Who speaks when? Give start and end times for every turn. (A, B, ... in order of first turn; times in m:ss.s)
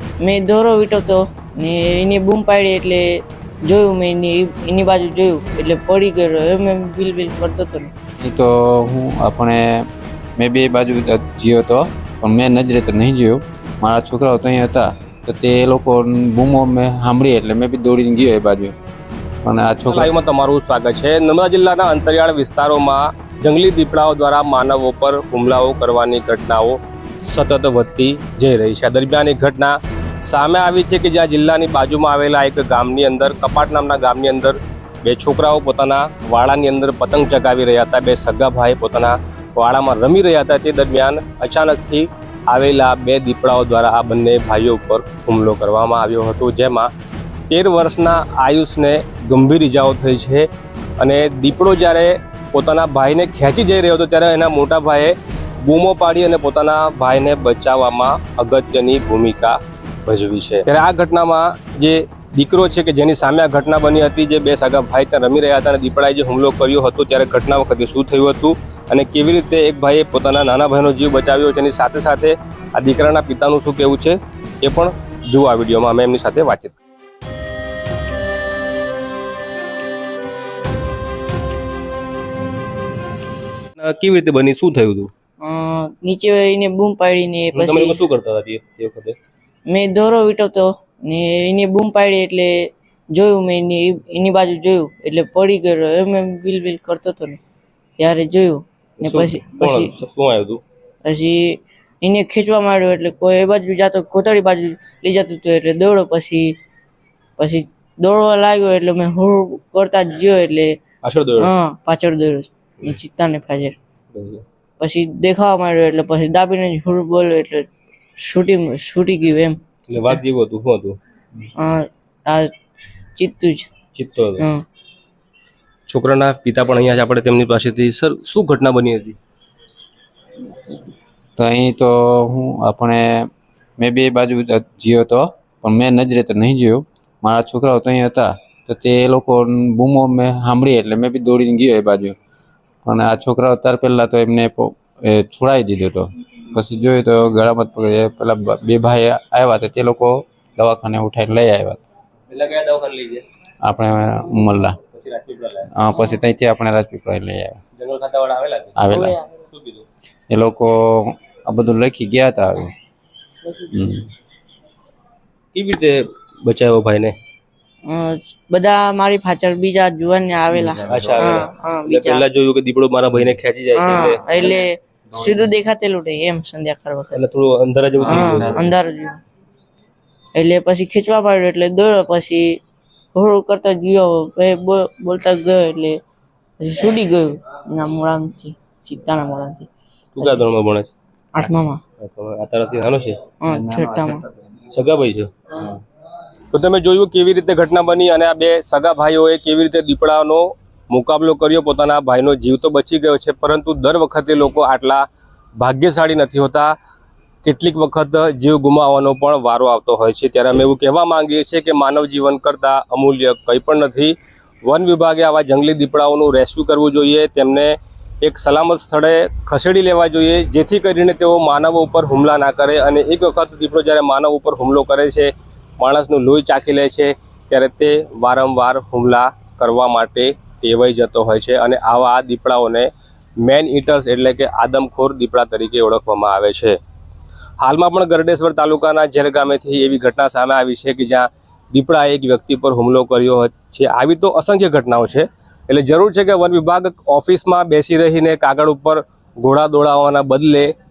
0:00.2-0:03.0 A
0:03.6-0:07.9 A
0:08.2-0:18.8 B
0:19.4-0:20.1 B
0:19.8-0:46.9 C
0:47.5-0:50.5 C
0:51.0-1:16.8 C
1:23.8-1:25.1 C
1:25.4-1:28.0 A
1:27.5-1:29.2 C
1:29.7-1:32.5 A
1:33.1-1:37.4 A
1:38.0-1:39.9 A
1:39.0-1:40.6 C
1:41.0-1:46.5 A
1:47.4-1:50.7 A
1:51.0-1:51.5 C
1:51.4-1:53.7 A
1:54.1-1:54.4 C
1:54.8-1:57.7 A
1:58.2-1:59.6 A
1:59.9-2:01.0 C
2:01.6-2:02.5 A
2:03.2-2:03.7 A
2:03.9-2:04.4 C
2:05.9-2:09.2 C
2:11.4-2:22.2 B
2:22.8-2:31.8 B
2:32.3-2:33.2 C
2:33.6-2:34.8 B
2:34.9-2:35.7 C
2:35.7-2:37.6 B
2:35.9-2:36.2 A
2:37.8-2:38.9 C
2:38.8-2:39.2 B
2:38.9-2:39.4 A
2:39.4-2:39.8 C
2:40.3-2:42.7 B
2:43.7-2:44.1 B
2:45.5-2:47.1 C
2:47.8-2:52.3 A
2:50.5-2:51.5 B
2:50.9-2:54.4 C
2:53.7-2:57.2 A
2:55.2-2:55.4 B
2:57.1-2:58.6 C
2:58.0-2:58.7 B
2:58.0-2:59.2 A
3:00.3-3:02.6 A
3:03.1-3:06.0 A
3:06.6-3:09.7 A
3:10.1-3:10.9 C
3:10.2-3:10.5 A
3:11.3-3:11.8 A
3:12.0-3:13.2 C
3:13.4-3:14.2 A
3:13.4-3:14.2 B
3:14.7-3:15.4 C
3:16.5-3:25.0 C
3:25.6-3:26.7 C
3:27.4-3:52.9 C
3:53.4-3:56.8 C
3:57.6-4:10.7 C